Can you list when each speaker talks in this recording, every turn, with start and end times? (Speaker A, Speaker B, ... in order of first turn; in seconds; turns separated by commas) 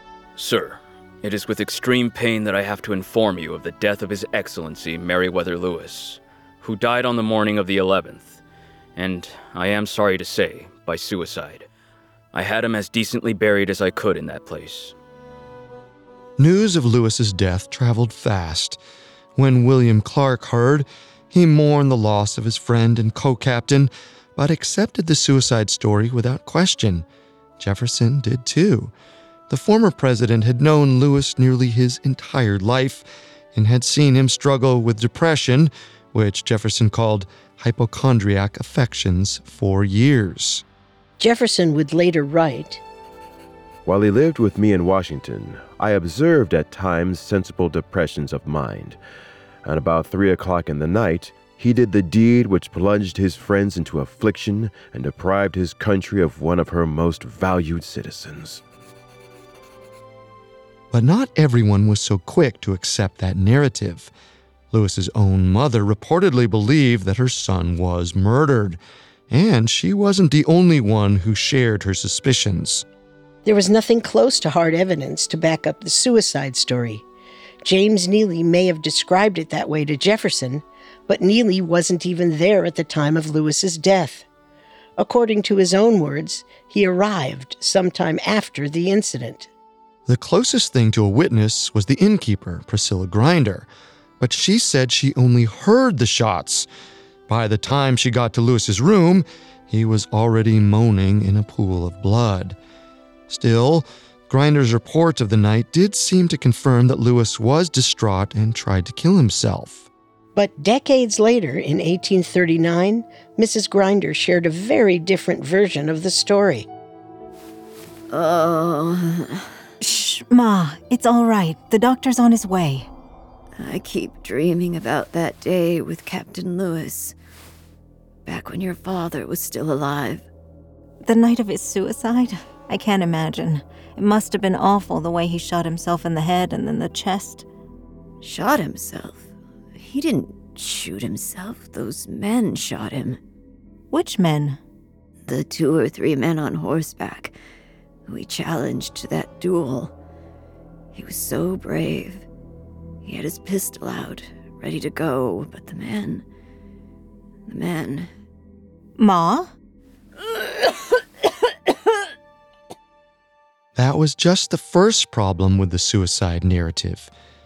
Speaker A: 0.4-8.4, Speaker A: 9.0-11.7, Speaker A: 12.3-14.9, Speaker B: 16.4-18.8, Speaker B: 19.4-27.1, Speaker B: 27.6-28.9, Speaker B: 29.5-40.6, Speaker C: 41.2-42.8, Speaker D: 43.9-49.0, Speaker D: 49.6-58.6, Speaker B: 60.9-64.1, Speaker B: 64.7-68.8, Speaker B: 69.3-72.8, Speaker C: 73.5-77.0, Speaker C: 77.6-84.2, Speaker C: 85.0-89.5, Speaker B: 90.1-93.7, Speaker B: 94.2-96.7, Speaker B: 97.3-102.6, Speaker B: 103.3-109.9, Speaker C: 110.3-116.7, Speaker E: 118.1-119.5, Speaker F: 119.8-122.9, Speaker E: 123.6-127.2, Speaker E: 128.3-130.2, Speaker F: 131.0-137.4, Speaker E: 138.2-143.2, Speaker F: 143.9-144.6, Speaker E: 145.3-147.3, Speaker E: 148.1-149.9, Speaker E: 150.9-152.2, Speaker E: 153.1-156.2, Speaker E: 157.5-158.1, Speaker F: 159.0-159.5, Speaker B: 163.8-167.1